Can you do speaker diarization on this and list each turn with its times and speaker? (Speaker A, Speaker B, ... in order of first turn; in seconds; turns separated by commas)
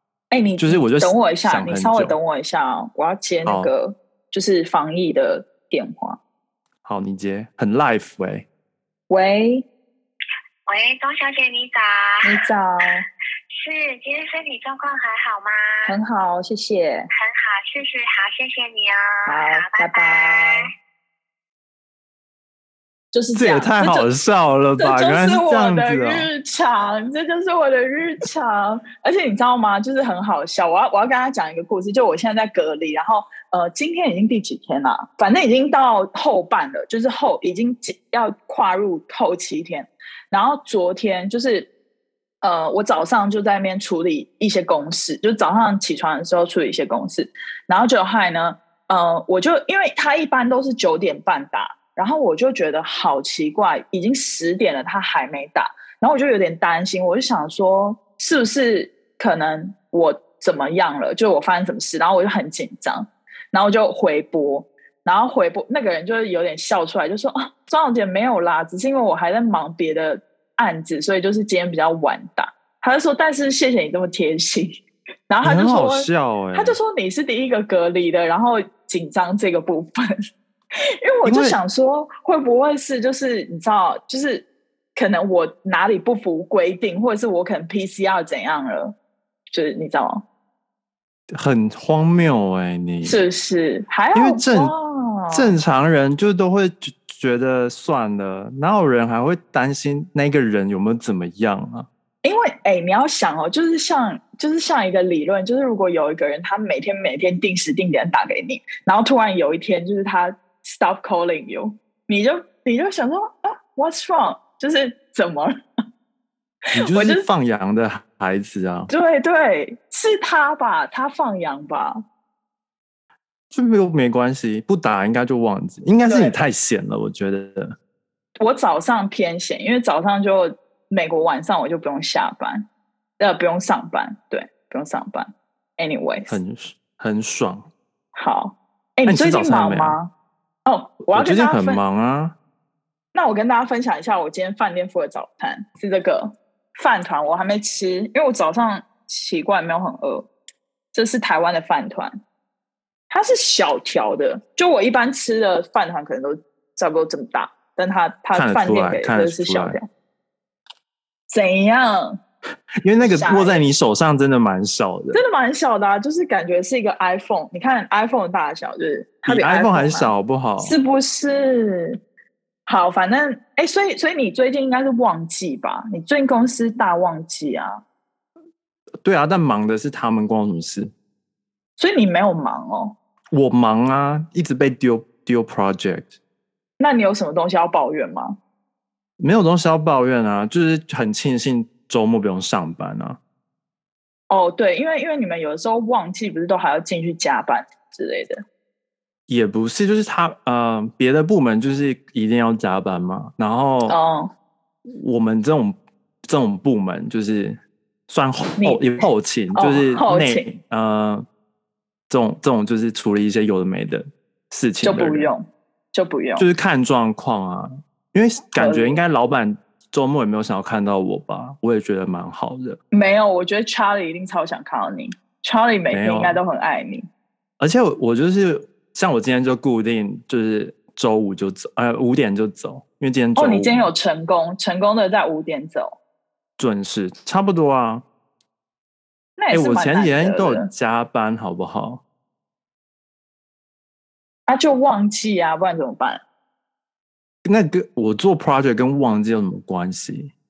Speaker A: 0.3-6.2, Speaker B: 0.6-2.2, Speaker B: 3.5-3.7, Speaker B: 6.8-8.5, Speaker A: 9.1-9.7, Speaker C: 10.7-12.3, Speaker A: 12.2-13.0, Speaker C: 13.5-16.0, Speaker A: 15.9-17.1, Speaker C: 17.2-20.6, Speaker A: 19.2-20.7, Speaker A: 23.1-24.1, Speaker B: 23.3-26.3, Speaker A: 24.8-41.7, Speaker A: 42.4-74.8, Speaker A: 75.3-80.1, Speaker B: 75.4-76.8, Speaker A: 81.0-88.9, Speaker B: 81.2-81.6, Speaker A: 89.5-90.2, Speaker B: 91.3-93.2, Speaker A: 93.0-95.6, Speaker B: 94.1-94.7, Speaker B: 95.3-101.9, Speaker A: 102.2-115.5, Speaker B: 116.7-118.9, Speaker A: 116.8-117.2, Speaker A: 118.9-122.0, Speaker B: 123.5-127.8, Speaker A: 126.0-126.3, Speaker A: 128.4-132.7, Speaker A: 133.2-136.4, Speaker B: 136.3-137.7, Speaker A: 138.1-140.1, Speaker B: 139.1-140.0, Speaker A: 140.7-141.8, Speaker B: 141.1-142.3, Speaker A: 143.1-150.3, Speaker A: 150.9-152.1, Speaker A: 153.1-159.8, Speaker B: 158.3-159.8, Speaker A: 161.3-162.2, Speaker B: 162.8-165.2, Speaker A: 163.0-163.7, Speaker A: 165.1-172.0, Speaker B: 169.2-170.8, Speaker A: 172.7-177.8, Speaker B: 179.0-180.9, Speaker A: 181.8-182.9, Speaker B: 183.3-186.1, Speaker A: 186.8-188.4, Speaker B: 189.2-193.2, Speaker A: 194.3-198.4, Speaker B: 199.3-203.9, Speaker A: 203.9-204.3, Speaker B: 204.9-211.2, Speaker A: 208.6-209.0, Speaker A: 209.5-210.5, Speaker B: 212.1-215.3, Speaker A: 214.8-216.5, Speaker B: 216.4-222.8, Speaker A: 218.6-219.0, Speaker A: 222.9-227.1, Speaker B: 225.9-226.4, Speaker B: 227.6-233.9, Speaker A: 233.3-236.0, Speaker B: 236.6-238.0, Speaker A: 239.4-240.7, Speaker B: 239.5-242.0, Speaker A: 244.5-246.2, Speaker B: 247.4-250.3